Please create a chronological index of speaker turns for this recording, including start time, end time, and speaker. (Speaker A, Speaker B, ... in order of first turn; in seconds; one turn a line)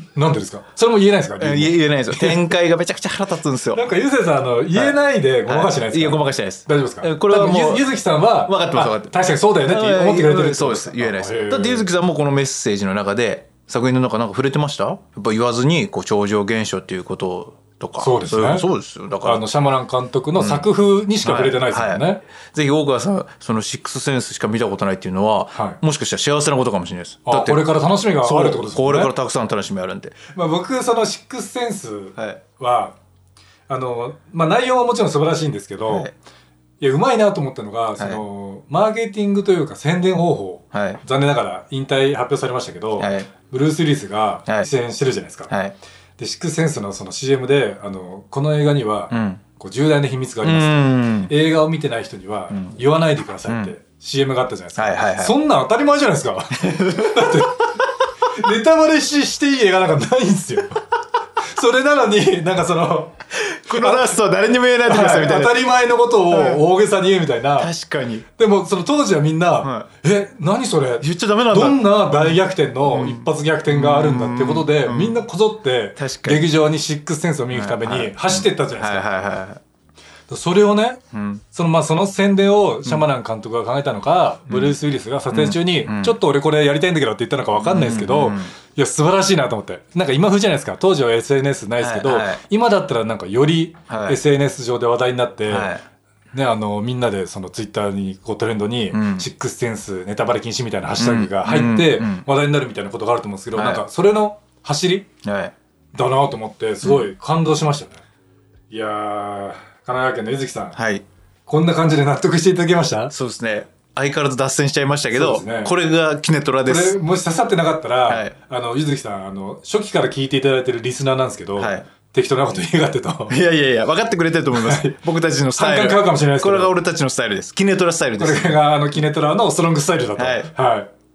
Speaker A: 0.1-2.5
Speaker B: 1.4-3.9
Speaker A: 3.7-11.9
Speaker B: 4.7-19.4
Speaker A: 18.0-18.7
Speaker A: 19.2-22.2
Speaker B: 20.4-20.7
Speaker B: 21.2-27.7
Speaker A: 25.5-25.8
Speaker A: 27.3-29.1
Speaker B: 28.2-30.2
Speaker A: 30.3-33.0
Speaker A: 33.7-36.1
Speaker B: 35.9-36.1
Speaker A: 36.8-45.5
Speaker B: 40.7-41.0
Speaker B: 43.0-43.3
Speaker B: 45.5-45.8
Speaker A: 46.2-57.7
Speaker B: 49.1-49.4
Speaker B: 50.4-51.3
Speaker B: 53.5-53.7
Speaker B: 54.8-55.4
Speaker B: 56.6-57.5
Speaker A: 58.3-60.8
Speaker A: 61.5-63.2
Speaker B: 63.4-65.6
Speaker A: 63.7-64.2
Speaker A: 64.9-67.7
Speaker B: 66.3-66.6
Speaker B: 67.6-68.3
Speaker A: 68.4-79.0
Speaker B: 69.6-69.9
Speaker B: 71.0-75.2
Speaker B: 76.0-76.5
Speaker B: 77.5-79.6
Speaker A: 80.3-81.0
Speaker B: 81.1-81.4
Speaker A: 81.5-95.7
Speaker B: 84.5-84.8
Speaker B: 85.3-86.2
Speaker B: 87.6-88.5
Speaker B: 91.8-92.4
Speaker B: 93.9-94.2
Speaker B: 95.5-95.8
Speaker A: 96.3-105.1
Speaker B: 98.9-99.3
Speaker B: 101.0-102.2
Speaker B: 103.5-103.8
Speaker B: 105.2-105.5
Speaker A: 106.0-108.0
Speaker A: 108.7-110.8
Speaker B: 110.8-111.0
Speaker A: 111.5-113.1
Speaker B: 113.1-117.0
Speaker A: 115.1-115.7
Speaker A: 116.7-123.3
Speaker B: 121.6-121.8
Speaker B: 123.3-128.6
Speaker A: 124.6-125.0
Speaker A: 125.6-126.7
Speaker A: 128.2-130.9
Speaker B: 130.2-130.5